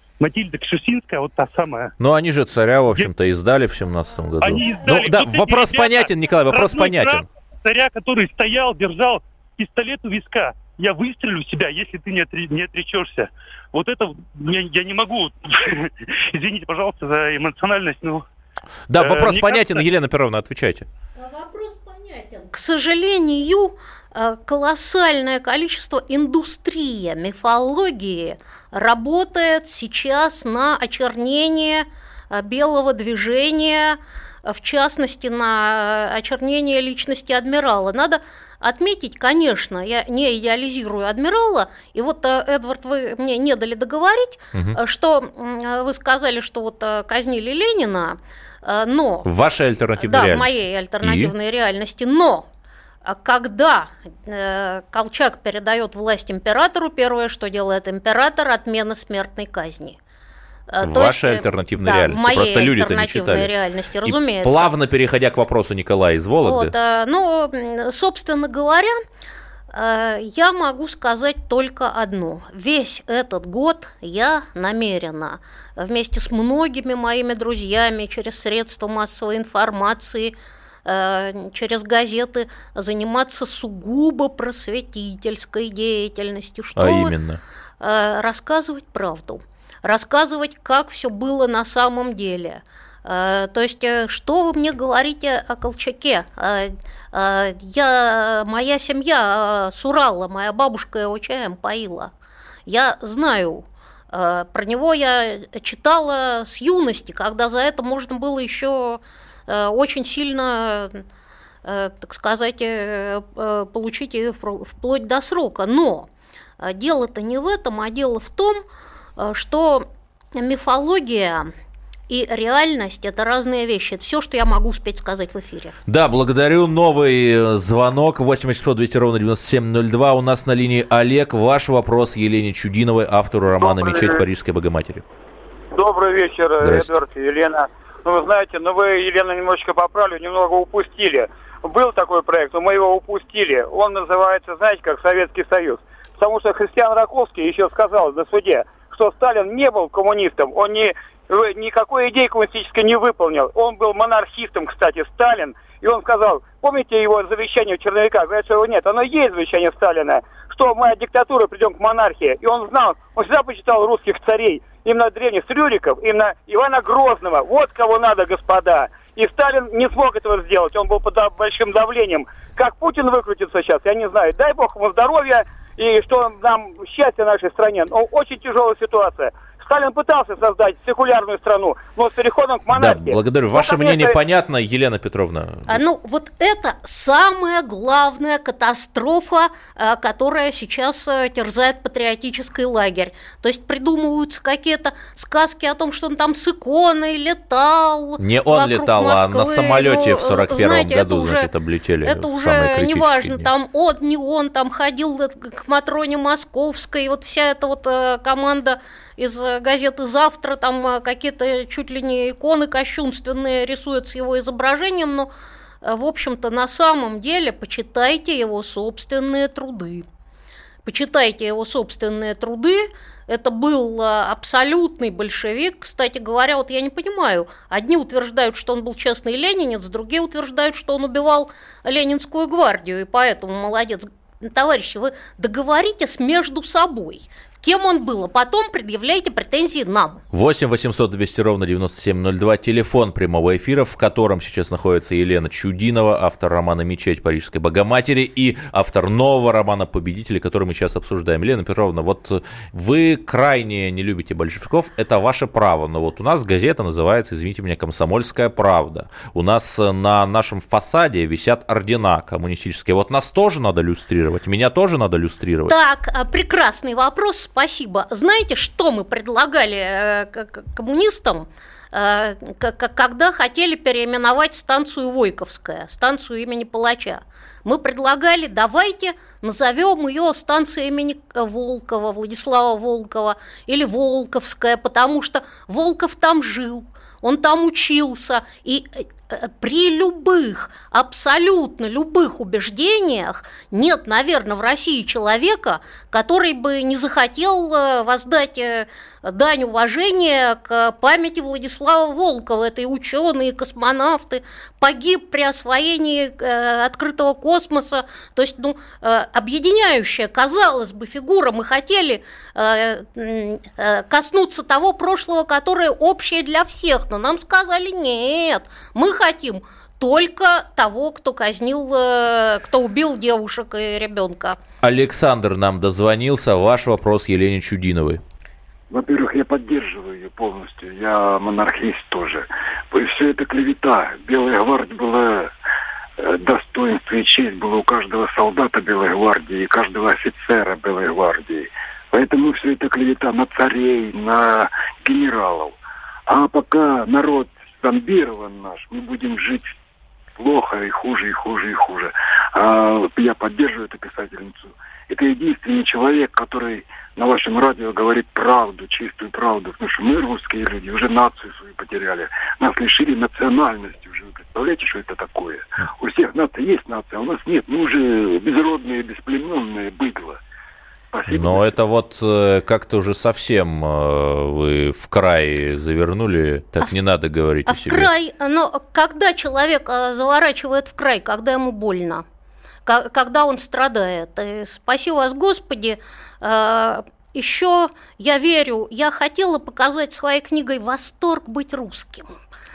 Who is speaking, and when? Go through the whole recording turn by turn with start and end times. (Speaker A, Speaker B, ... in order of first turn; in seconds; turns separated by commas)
Speaker A: 0.2-1.9, Speaker B: 2.0-7.3, Speaker A: 4.4-18.2, Speaker B: 18.9-20.9, Speaker A: 19.0-19.8, Speaker C: 21.2-49.3, Speaker B: 44.5-44.8, Speaker B: 49.2-51.3, Speaker C: 50.0-52.5, Speaker C: 53.0-60.0, Speaker C: 60.7-64.7, Speaker B: 60.8-63.5, Speaker B: 64.0-66.7, Speaker C: 66.4-69.0, Speaker C: 69.7-87.1, Speaker B: 86.8-87.4, Speaker C: 87.8-102.1, Speaker C: 102.7-111.0, Speaker C: 111.6-116.1, Speaker C: 116.6-118.6, Speaker C: 119.2-121.5, Speaker C: 122.1-125.8, Speaker B: 125.9-135.1, Speaker D: 133.6-134.2, Speaker D: 135.7-184.2, Speaker B: 136.6-136.9, Speaker B: 182.7-185.8, Speaker C: 185.7-201.5, Speaker B: 198.2-203.5, Speaker C: 202.0-215.3, Speaker C: 215.8-220.1, Speaker C: 220.8-240.2, Speaker B: 240.3-265.8, Speaker C: 265.7-324.6, Speaker B: 324.8-328.2, Speaker E: 328.9-335.5, Speaker E: 336.2-345.8, Speaker E: 346.3-349.7, Speaker E: 350.4-370.4, Speaker E: 371.1-371.7, Speaker B: 371.3-378.1, Speaker C: 377.7-382.2, Speaker C: 382.9-392.4